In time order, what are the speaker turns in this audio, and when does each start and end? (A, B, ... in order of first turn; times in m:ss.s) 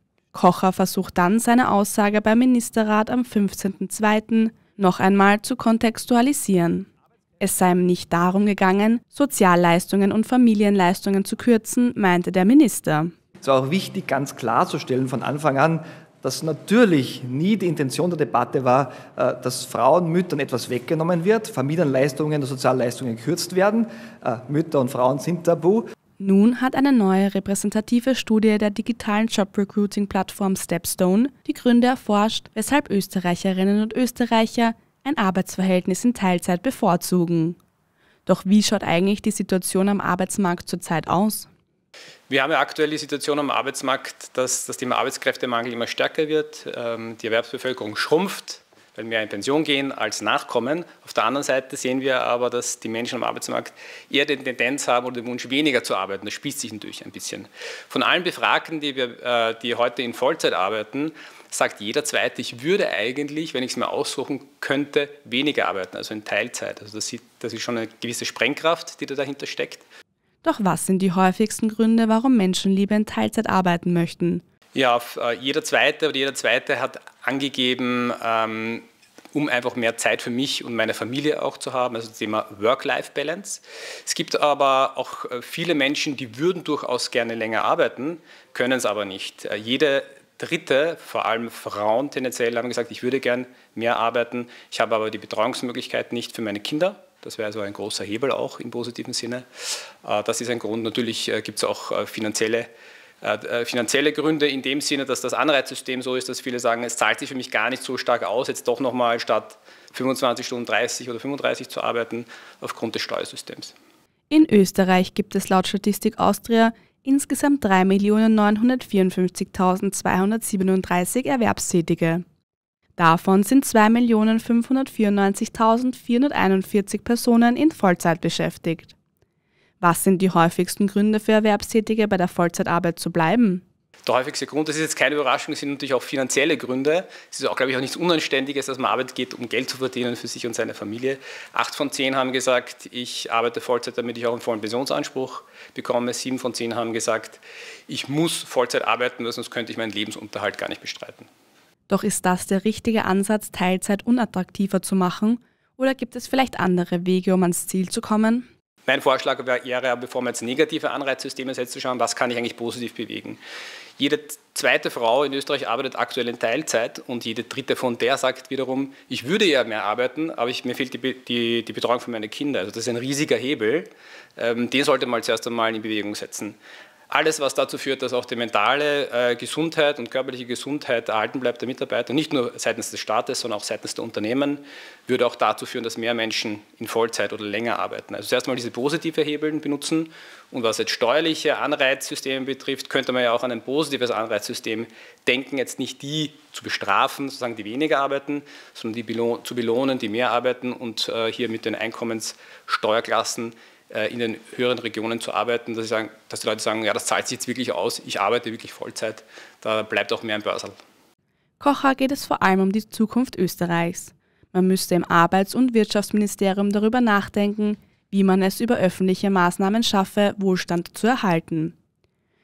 0:00.3-0:06.9 A
0:07.4-0:13.1 A
0:13.4-0:25.8 B
0:26.2-0:37.6 A
0:38.3-0:41.5 A
0:42.3-1:09.8 C
1:10.4-1:14.4 A
1:14.8-1:39.5 C
1:40.0-1:42.7 C
1:43.2-1:53.8 C
1:54.3-2:02.2 A
2:03.0-2:09.0 A
2:09.8-2:13.6 A
2:14.1-2:31.3 C
2:31.9-2:38.5 A
2:38.9-2:43.4 C
2:44.0-2:56.6 C
2:57.1-3:30.8 C
3:31.6-3:41.8 A